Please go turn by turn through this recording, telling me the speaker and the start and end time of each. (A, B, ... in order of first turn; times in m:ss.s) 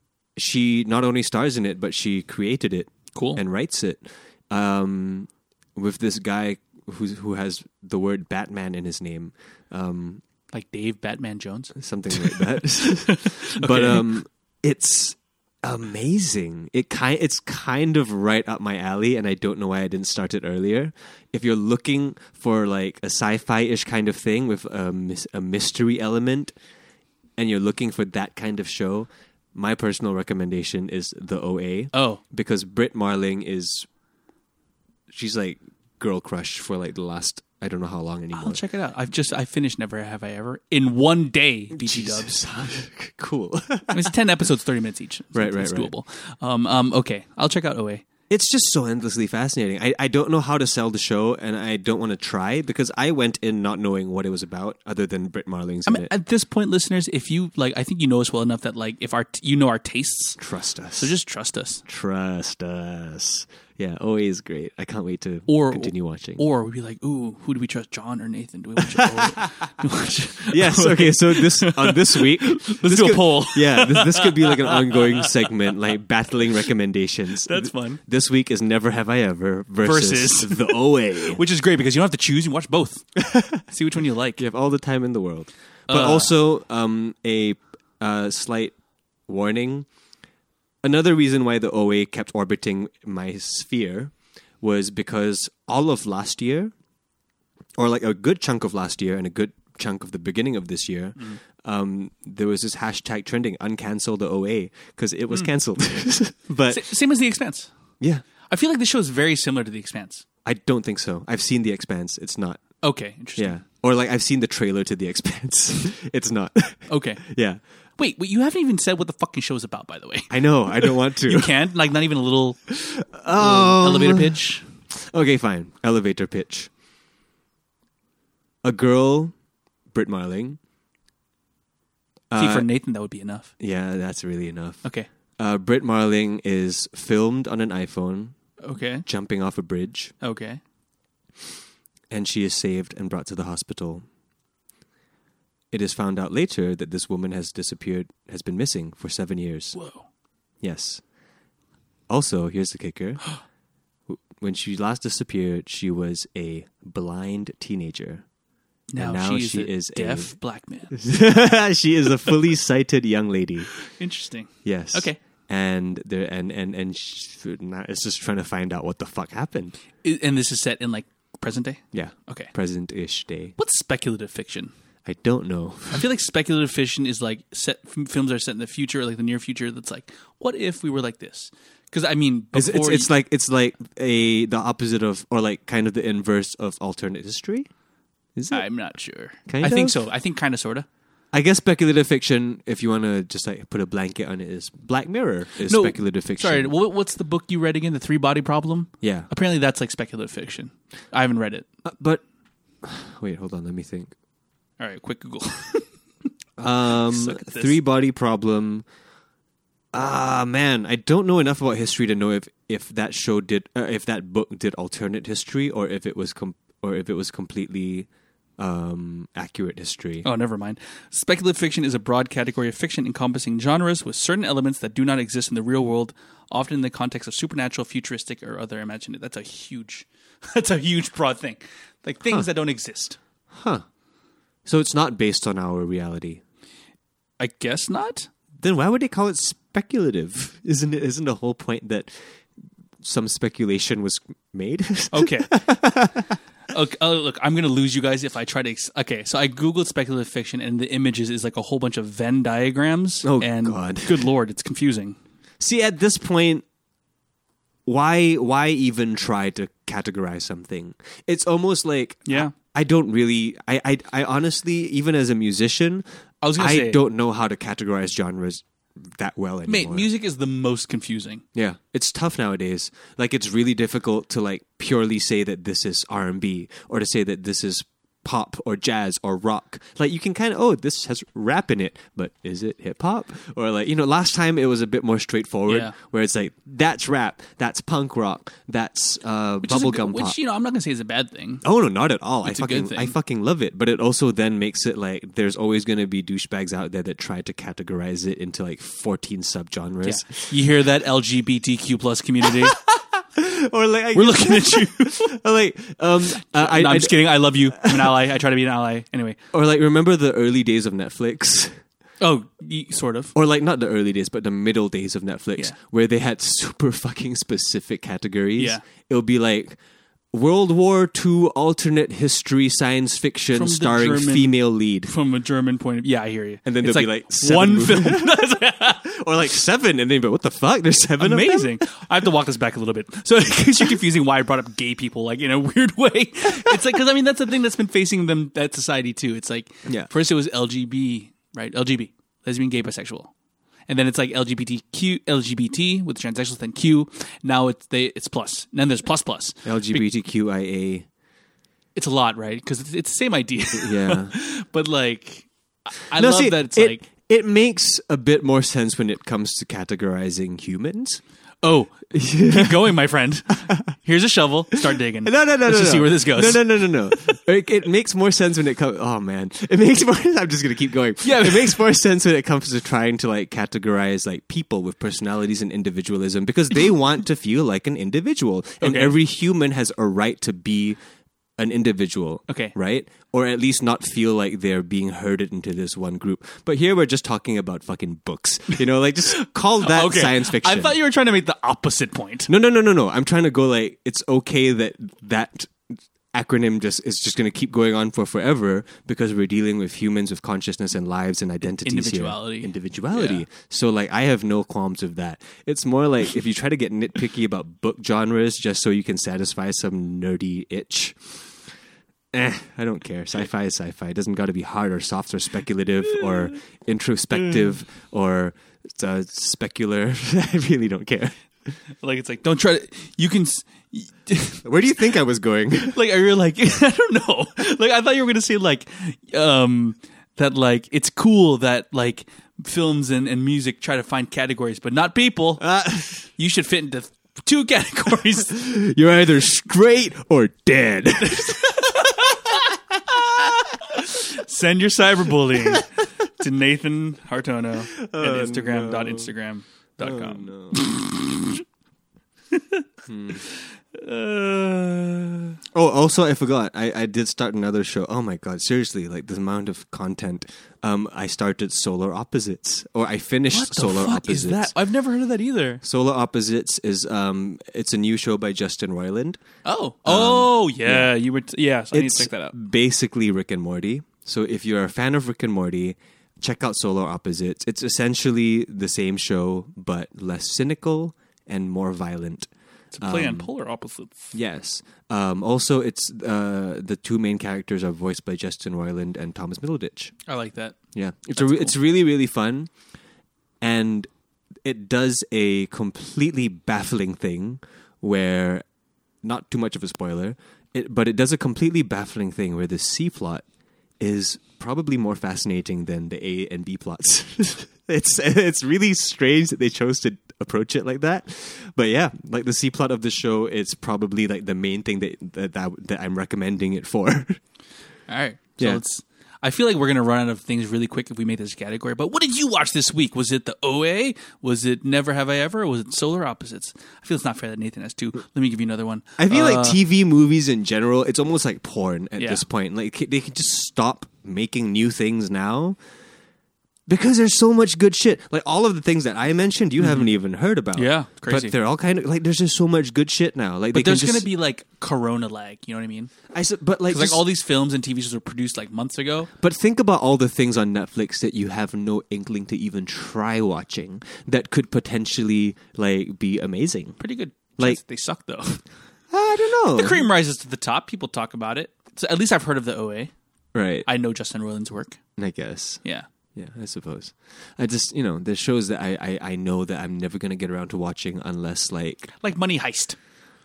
0:00.4-0:10.2 A
0:03.1-0:03.4 B
0:10.5-0:14.1 B
0:11.8-0:26.6 A
0:27.4-0:33.9 A
0:31.9-0:32.2 B
0:35.1-0:38.6 A
0:38.4-0:42.4 B
0:41.7-0:44.1 A
0:43.9-0:48.0 B
0:45.3-0:45.9 A
0:48.3-0:56.1 A
0:55.9-1:00.4 B
1:00.4-1:01.1 A
1:00.9-1:01.8 B
1:01.9-1:06.4 A
1:05.5-1:15.3 B
1:08.8-1:09.4 A
1:10.5-1:21.4 A
1:17.4-1:18.0 B
1:19.8-1:24.4 B
1:23.3-1:23.6 A
1:24.4-1:28.8 A
1:25.9-1:26.3 B
1:29.3-1:29.9 A
1:30.8-1:36.7 A
1:37.8-1:46.8 A
1:46.6-1:47.7 B
1:48.5-1:50.2 B
1:50.4-1:52.7 A
1:52.8-1:53.6 B
1:53.4-1:57.6 A
1:56.9-1:57.2 B
1:58.0-2:04.7 B
2:00.3-2:01.5 A
2:02.8-2:04.4 A
2:05.0-2:06.7 A
2:08.6-2:09.3 A
2:09.9-2:10.6 A
2:12.3-2:12.7 A
2:12.3-2:13.5 B
2:13.6-2:14.8 A
2:15.4-2:18.4 A
2:18.6-2:19.0 B
2:19.0-2:20.1 A
2:20.2-2:20.6 B
2:22.1-2:24.0 A
2:25.7-2:29.8 A
2:29.8-2:30.1 B
2:30.6-2:31.0 A
2:32.1-2:33.3 A
2:34.1-2:38.2 A
2:38.9-2:41.0 B
2:39.0-2:40.3 A
2:40.9-2:43.7 A
2:43.8-2:45.2 B
2:44.6-2:49.8 A
2:50.0-2:52.5 B
2:51.9-2:53.5 A
2:53.6-2:54.7 B
2:55.0-2:56.1 A
2:55.9-3:03.1 B
3:02.5-3:07.7 A
3:08.4-3:08.7 A
3:08.5-3:10.9 B
3:09.5-3:10.0 A
3:11.3-3:16.7 A
3:15.7-3:21.7 B
3:19.0-3:19.3 A
3:21.8-3:22.2 A
3:22.8-3:24.1 A
3:24.8-3:25.9 B
3:26.6-3:28.8 A
3:27.0-3:27.8 B
3:29.9-3:38.1 A
3:38.6-3:40.3 A
3:40.2-3:53.2 B
3:53.5-3:53.8 A
3:54.7-3:56.4 A
3:57.4-3:58.3 B
3:58.6-4:02.4 A
4:03.0-4:06.4 A
4:05.1-4:05.6 B
4:06.7-4:15.2 B
4:13.2-4:14.3 A
4:15.6-4:16.6 A
4:17.9-4:30.1 A
4:22.3-4:22.5 B
4:26.4-4:27.0 B
4:29.7-4:31.4 B
4:31.5-4:50.4 A
4:45.7-4:45.9 B
4:49.6-4:51.6 B
4:51.6-5:00.6 A
4:52.4-4:53.1 B
5:00.0-5:02.8 B
5:02.4-5:08.2 A
5:04.1-5:05.4 B
5:06.2-5:09.4 B
5:09.5-5:11.8 A
5:12.2-5:13.3 B
5:13.3-5:19.8 A
5:20.3-5:25.1 A
5:23.5-5:29.0 B
5:26.6-5:31.8 A
5:31.2-5:43.3 B
5:43.9-5:50.0 B
5:49.6-5:51.1 A
5:52.0-5:57.0 B
5:53.8-5:54.4 A
5:56.1-6:01.2 A
6:01.6-6:07.4 B
6:02.1-6:03.0 A
6:04.7-6:21.0 A
6:11.2-6:11.8 B
6:18.8-6:19.1 B
6:21.6-6:31.0 A
6:22.5-6:22.8 B
6:29.2-6:32.5 B
6:32.5-6:51.4 A
6:41.7-6:43.4 B
6:52.3-7:01.3 A
7:02.0-7:04.6 B
7:04.6-7:06.0 A
7:05.9-7:18.6 B
7:15.6-7:16.2 A
7:18.5-7:22.2 A
7:21.3-7:22.6 B
7:22.9-7:23.7 A
7:23.9-7:31.6 B
7:27.9-7:29.3 A
7:30.0-7:30.9 A
7:32.5-7:32.8 B
7:33.0-7:33.4 A
7:33.4-7:35.6 B
7:35.7-7:44.7 A
7:43.5-7:45.8 B
7:45.8-7:49.4 A
7:49.6-7:52.5 B
7:50.0-7:51.1 A
7:51.9-8:02.5 A
8:02.9-8:04.3 B
8:03.0-8:03.5 A
8:04.3-8:10.1 A
8:10.2-8:10.8 B
8:11.0-8:12.7 A
8:11.4-8:11.8 B
8:13.6-8:14.1 A
8:14.6-8:18.6 A
8:19.2-8:23.4 A
8:24.0-8:37.4 A
8:38.1-8:49.8 B
8:49.2-8:55.8 A
8:52.2-8:52.4 B
8:56.9-9:04.3 A
8:59.8-9:00.1 B
9:00.8-9:01.5 B
9:03.7-9:06.1 B
9:06.3-9:07.2 A
9:06.9-9:09.3 B
9:09.4-9:17.0 A
9:17.0-9:18.6 B
9:19.1-9:20.1 A
9:19.7-9:23.1 B
9:23.5-9:23.9 A
9:23.9-9:25.0 B
9:25.2-9:25.8 A
9:26.3-9:32.1 A
9:32.2-9:33.0 B